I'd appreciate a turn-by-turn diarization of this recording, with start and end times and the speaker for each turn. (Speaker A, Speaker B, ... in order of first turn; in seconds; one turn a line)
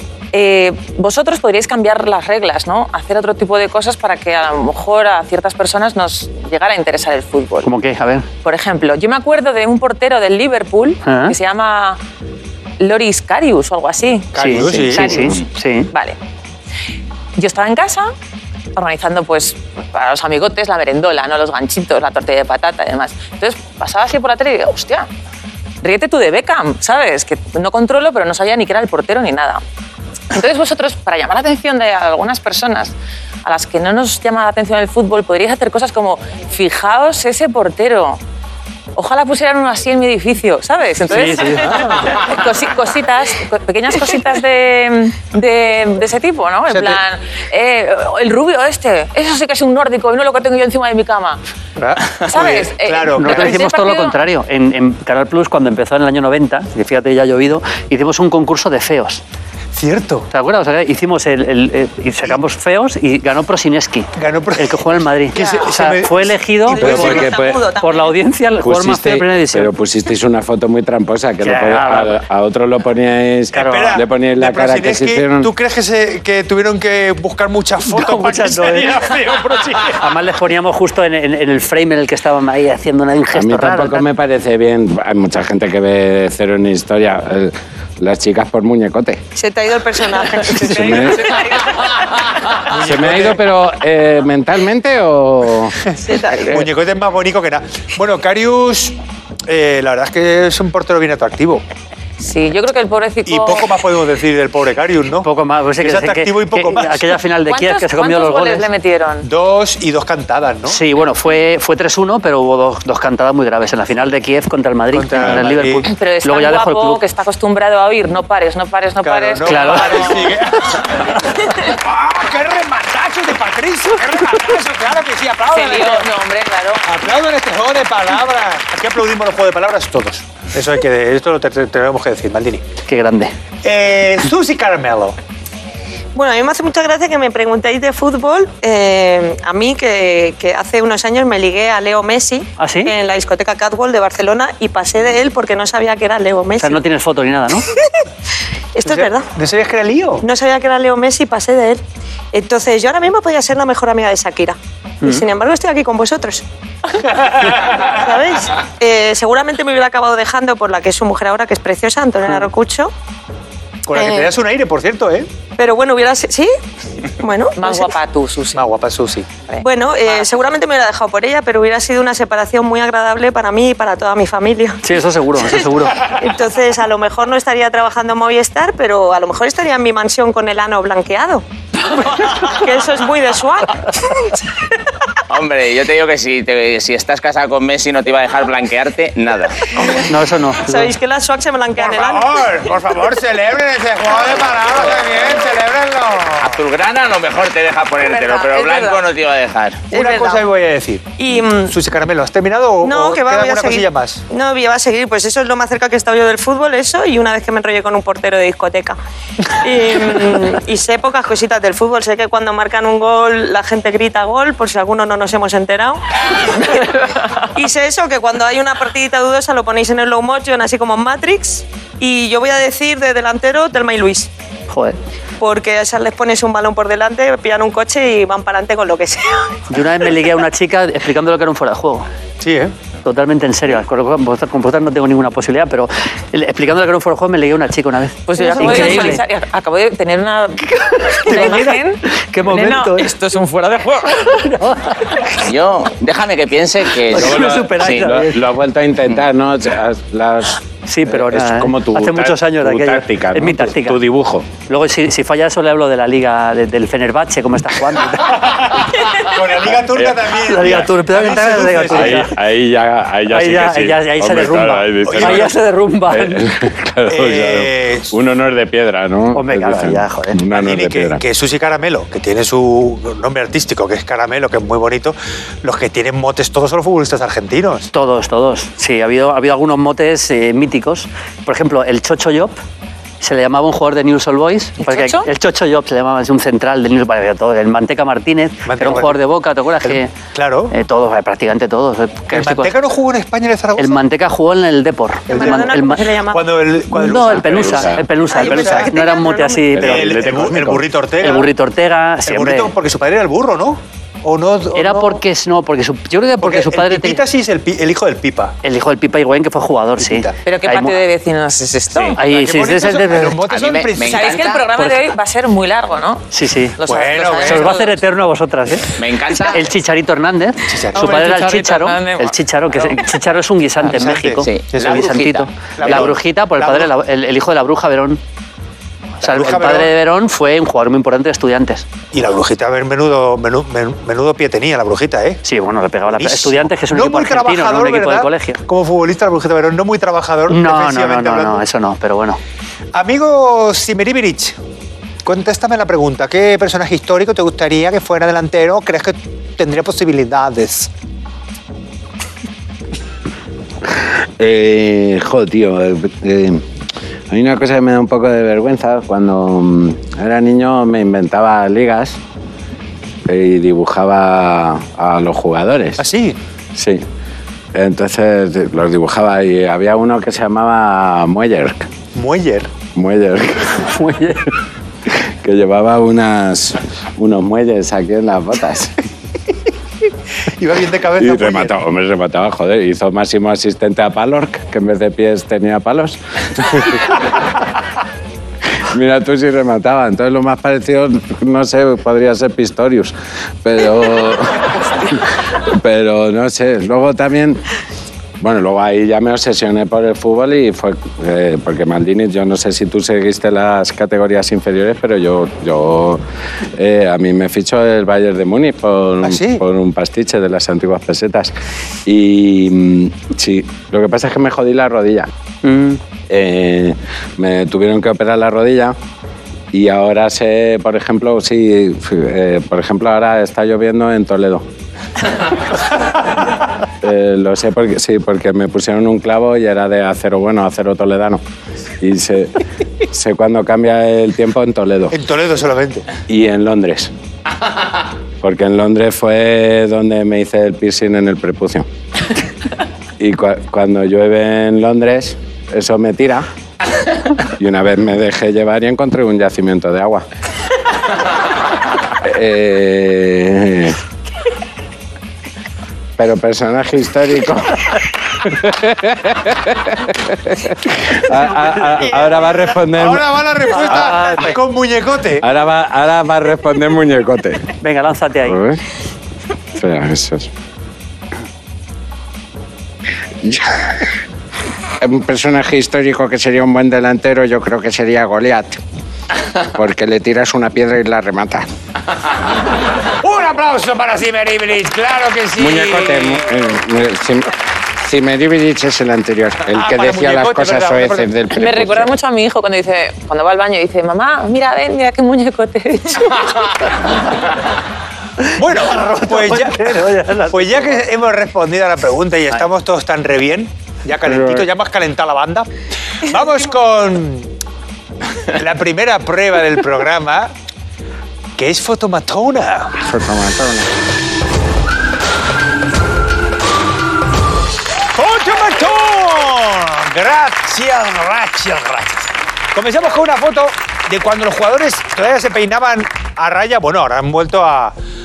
Speaker A: 0.3-7.7
Speaker B: 7.6-8.3
Speaker A: 8.4-12.0
Speaker B: 11.0-11.3
Speaker A: 12.8-15.4
Speaker C: 14.3-15.3
Speaker B: 14.3-15.9
Speaker A: 15.9-16.2
Speaker A: 17.4-18.1
Speaker A: 18.7-25.1
Speaker A: 25.8-29.6
Speaker A: 30.3-32.9
Speaker A: 33.4-38.2
Speaker A: 38.9-51.4
Speaker B: 41.1-41.8
Speaker C: 46.7-47.0
Speaker C: 51.8-53.6
Speaker A: 52.2-54.2
Speaker B: 53.1-59.2
Speaker C: 59.7-60.3
Speaker B: 60.3-69.7
Speaker C: 64.2-67.1
Speaker A: 65.3-65.7
Speaker D: 66.7-68.1
Speaker E: 66.8-67.6
Speaker E: 68.6-75.5
Speaker B: 71.4-72.2
Speaker B: 73.5-74.0
Speaker C: 73.5-80.0
Speaker B: 77.9-79.0
Speaker B: 80.0-84.0
Speaker E: 83.3-89.2
Speaker D: 89.3-91.7
Speaker E: 90.6-91.5
Speaker C: 92.7-93.4
Speaker E: 92.7-95.8
Speaker D: 96.0-96.7
Speaker C: 96.3-101.6
Speaker A: 102.2-103.7
Speaker C: 103.2-105.3
Speaker B: 105.2-108.7
Speaker C: 105.8-107.1
Speaker A: 107.4-109.3
Speaker C: 109.2-110.8
Speaker B: 110.7-117.0
Speaker C: 114.9-115.9
Speaker A: 115.9-120.4
Speaker C: 119.0-126.1
Speaker B: 119.5-120.3
Speaker A: 125.5-126.8
Speaker C: 126.8-132.6
Speaker B: 132.9-133.3
Speaker C: 133.6-135.2
Speaker D: 136.1-146.8
Speaker B: 142.6-142.9
Speaker B: 146.6-147.7
Speaker D: 147.7-148.0
Speaker D: 148.7-149.3
Speaker C: 148.8-150.2
Speaker D: 150.2-151.8
Speaker D: 152.3-156.4
Speaker C: 157.1-157.8
Speaker D: 157.6-162.9
Speaker C: 163.8-165.3
Speaker D: 163.9-164.3
Speaker D: 165.6-166.5
Speaker D: 167.2-167.9
Speaker A: 167.6-168.7
Speaker C: 168.5-169.3
Speaker A: 169.5-170.5
Speaker D: 169.6-174.8
Speaker B: 174.8-176.0
Speaker D: 176.0-181.4
Speaker D: 182.1-184.4
Speaker F: 185.3-190.0
Speaker B: 190.0-190.9
Speaker D: 190.6-192.3
Speaker C: 191.8-196.6
Speaker F: 196.4-199.9
Speaker D: 198.0-199.0
Speaker D: 199.9-200.5
Speaker C: 199.9-204.2
Speaker D: 201.2-201.8
Speaker D: 202.8-209.0
Speaker D: 209.5-224.3
Speaker B: 224.7-225.0
Speaker D: 225.4-229.5
Speaker B: 229.7-232.1
Speaker C: 232.4-232.7
Speaker B: 233.0-239.2
Speaker A: 238.3-244.2
Speaker B: 240.9-243.2
Speaker B: 244.2-245.2
Speaker F: 245.4-248.1
Speaker E: 247.1-254.5
Speaker B: 247.1-248.4
Speaker B: 250.8-254.0
Speaker B: 254.7-258.4
Speaker C: 258.5-262.3
Speaker E: 259.7-260.9
Speaker B: 260.4-262.4
Speaker E: 261.9-265.5
Speaker B: 263.3-266.4
Speaker C: 265.0-265.5
Speaker E: 266.1-271.2
Speaker C: 267.1-268.1
Speaker B: 269.3-270.4
Speaker C: 270.5-277.9
Speaker B: 277.9-282.6
Speaker B: 283.2-290.1
Speaker A: 284.8-285.3
Speaker C: 288.6-289.2
Speaker C: 289.8-290.7
Speaker B: 290.7-292.7
Speaker C: 292.3-294.0
Speaker B: 293.8-296.1
Speaker D: 295.3-296.5
Speaker C: 295.3-295.6
Speaker C: 296.3-298.9
Speaker B: 296.9-300.4
Speaker E: 297.3-298.1
Speaker D: 298.3-299.7
Speaker E: 299.7-300.9
Speaker C: 299.8-301.5
Speaker B: 301.2-302.7
Speaker C: 302.2-305.2
Speaker B: 304.7-307.2
Speaker C: 306.4-308.6
Speaker B: 308.6-311.0
Speaker C: 310.0-310.4
Speaker A: 310.4-312.2
Speaker F: 311.9-312.2
Speaker B: 312.2-313.4
Speaker C: 312.2-314.4
Speaker F: 313.5-314.7
Speaker A: 314.0-318.0
Speaker B: 316.3-316.8
Speaker C: 316.8-317.8
Speaker B: 317.4-328.2
Speaker F: 319.0-319.6
Speaker C: 320.7-321.3
Speaker A: 320.9-323.1
Speaker C: 323.9-325.2
Speaker F: 324.4-326.1
Speaker C: 325.8-326.9
Speaker C: 329.2-329.9
Speaker B: 329.2-331.8
Speaker C: 332.1-335.4
Speaker B: 335.4-338.6
Speaker C: 336.1-341.6
Speaker B: 340.5-342.4
Speaker C: 342.9-344.6
Speaker C: 345.2-350.9
Speaker E: 354.4-356.6
Speaker E: 357.3-362.2
Speaker E: 363.2-366.0
Speaker C: 366.0-366.4
Speaker E: 366.7-367.0
Speaker E: 367.7-371.9
Speaker C: 372.1-372.7
Speaker E: 372.9-373.9
Speaker B: 373.9-374.5
Speaker E: 375.1-378.9
Speaker C: 380.6-381.7
Speaker E: 381.2-387.2
Speaker E: 388.8-397.6
Speaker E: 398.4-406.2
Speaker E: 406.7-411.5
Speaker C: 409.2-409.6
Speaker E: 412.0-415.3
Speaker B: 415.6-416.0
Speaker E: 416.3-418.9
Speaker E: 419.7-424.6
Speaker E: 427.0-431.4
Speaker E: 432.0-435.1
Speaker C: 435.1-436.1
Speaker E: 436.3-437.1
Speaker E: 438.4-441.9
Speaker E: 443.2-446.5
Speaker E: 447.6-450.2
Speaker E: 452.2-454.0
Speaker E: 456.2-463.2
Speaker D: 462.2-462.6
Speaker C: 462.9-465.4
Speaker B: 463.7-464.6
Speaker E: 465.4-467.7
Speaker B: 467.8-468.6
Speaker E: 468.4-468.8
Speaker E: 469.7-470.5
Speaker E: 473.4-474.1
Speaker E: 475.0-478.8
Speaker E: 479.7-481.7
Speaker C: 483.2-486.4
Speaker E: 485.6-492.1
Speaker C: 489.7-491.4
Speaker A: 491.5-496.7
Speaker C: 498.5-505.7
Speaker B: 498.8-501.0
Speaker E: 504.2-504.7
Speaker C: 506.2-507.5
Speaker C: 508.5-510.5
Speaker C: 511.6-513.0
Speaker E: 513.0-513.9
Speaker C: 518.1-527.9